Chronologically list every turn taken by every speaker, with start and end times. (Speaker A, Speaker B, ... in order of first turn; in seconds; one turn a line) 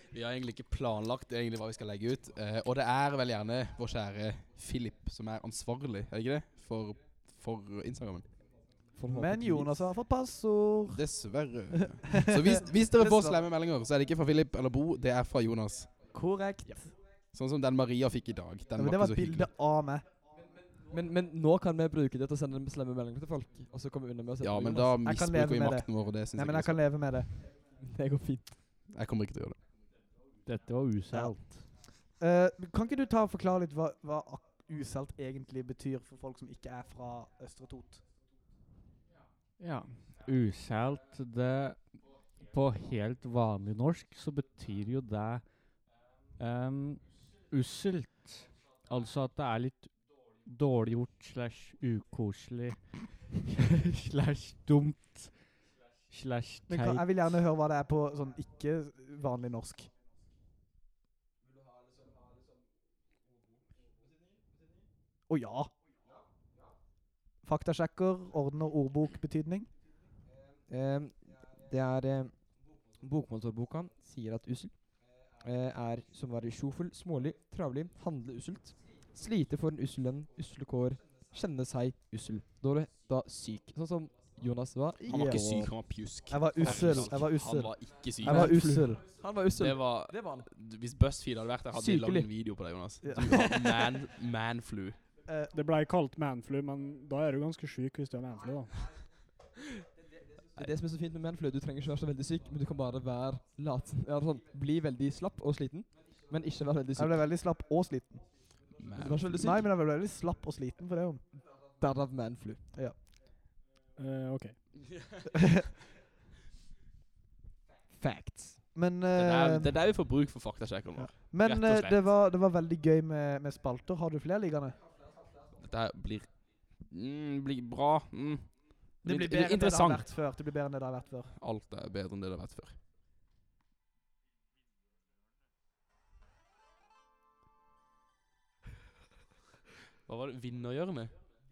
Speaker A: 0.1-8.2
Speaker B: 9.0-9.9
Speaker C: 9.1-11.0
Speaker A: 10.9-15.9
Speaker C: 11.9-13.4
Speaker C: 16.1-16.9
Speaker A: 17.3-19.5
Speaker C: 18.8-20.1
Speaker B: 20.9-25.0
Speaker A: 24.4-26.8
Speaker C: 25.0-27.3
Speaker B: 27.8-28.5
Speaker A: 28.9-29.6
Speaker D: 30.5-31.6
Speaker C: 31.1-31.4
Speaker C: 32.2-38.0
Speaker D: 39.6-41.9
Speaker D: 42.5-45.5
Speaker D: 46.4-49.9
Speaker D: 50.5-55.6
Speaker D: 56.1-57.1
Speaker C: 56.7-59.9
Speaker C: 65.3-65.7
Speaker C: 67.4-69.7
Speaker B: 70.7-72.3
Speaker B: 72.9-74.8
Speaker B: 75.3-85.8
Speaker C: 85.0-85.4
Speaker A: 85.1-88.6
Speaker C: 86.3-89.0
Speaker B: 86.7-87.1
Speaker D: 88.3-88.8
Speaker B: 88.3-90.5
Speaker A: 89.5-95.0
Speaker B: 91.7-92.3
Speaker C: 93.0-94.0
Speaker C: 95.3-95.5
Speaker E: 95.5-98.8
Speaker B: 100.6-107.2
Speaker C: 107.0-108.2
Speaker A: 108.8-109.5
Speaker B: 109.0-109.7
Speaker C: 109.4-111.2
Speaker B: 111.7-112.6
Speaker E: 114.0-114.6
Speaker A: 115.0-115.2
Speaker B: 117.9-118.6
Speaker C: 118.8-119.7
Speaker A: 119.2-122.1
Speaker C: 121.0-124.8
Speaker A: 125.6-130.1
Speaker C: 129.0-131.3
Speaker A: 131.4-132.8
Speaker A: 140.1-141.1